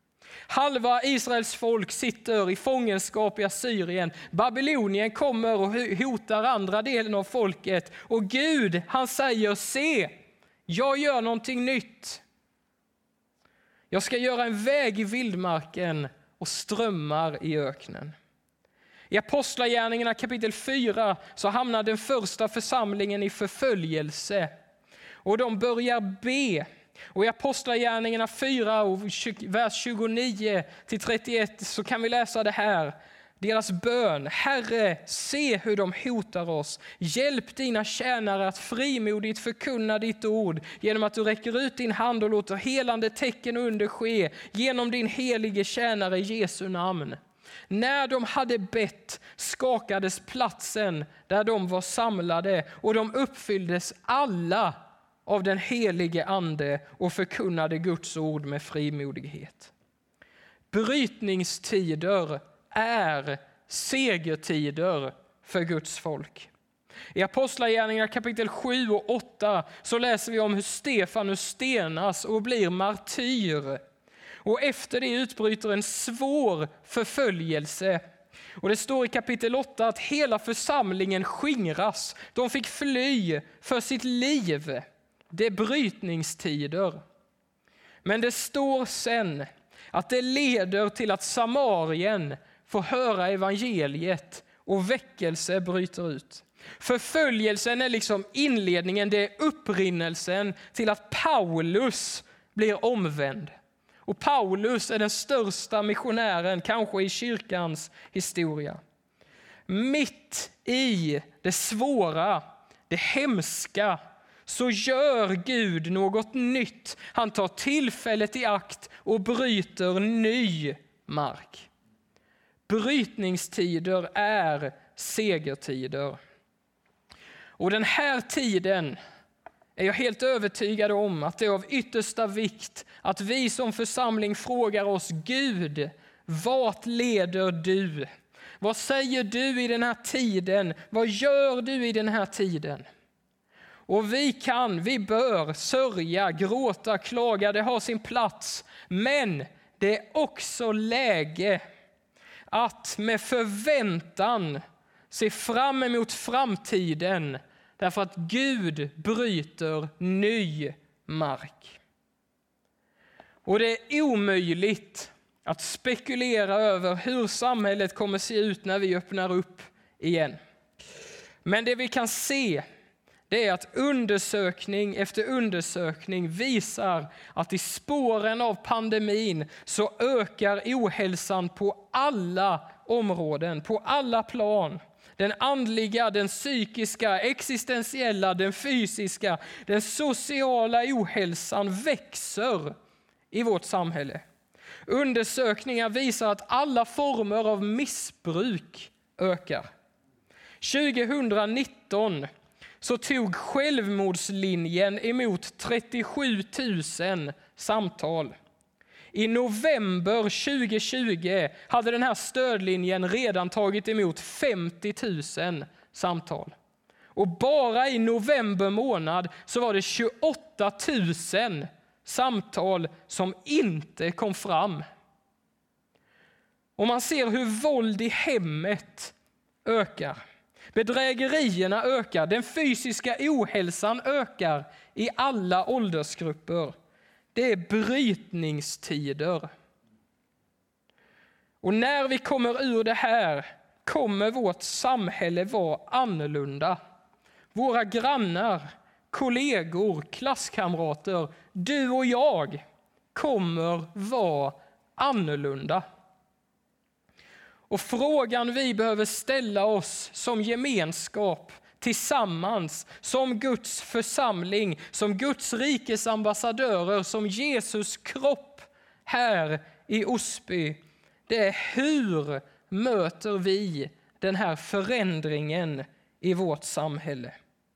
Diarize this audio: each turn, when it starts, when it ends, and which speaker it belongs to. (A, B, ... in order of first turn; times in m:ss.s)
0:00.5-0:10.1 A
0:10.7-0:12.2 A
0:13.9-0:18.2 A
0:19.1-0:24.5 A
0:25.2-0:47.2 A
0:47.7-0:54.8 A
0:55.3-0:59.7 A
1:00.7-1:06.5 A
1:07.1-1:13.8 A
1:14.4-1:18.0 A
1:18.6-1:27.0 A
1:28.0-1:43.5 A
1:44.1-1:48.8 A
1:49.7-2:01.7 A
2:02.7-2:06.2 A
2:07.6-2:09.0 A
2:09.8-2:18.1 A
2:18.6-2:22.9 A
2:23.9-2:31.6 A
2:32.5-2:41.8 A
2:43.5-2:50.4 A
2:51.4-2:52.6 A
2:53.3-3:12.7 A
3:13.3-3:14.2 A
3:14.9-3:19.7 A
3:20.6-3:22.3 A
3:22.8-3:28.3 A
3:29.1-3:36.6 A
3:37.2-3:44.8 A
3:46.8-3:49.1 A
3:49.6-3:50.2 A
3:50.7-3:56.7 A
3:57.3-3:59.5 A
4:01.6-4:06.8 A
4:07.5-4:12.6 A
4:13.1-4:15.8 A
4:17.7-4:37.4 A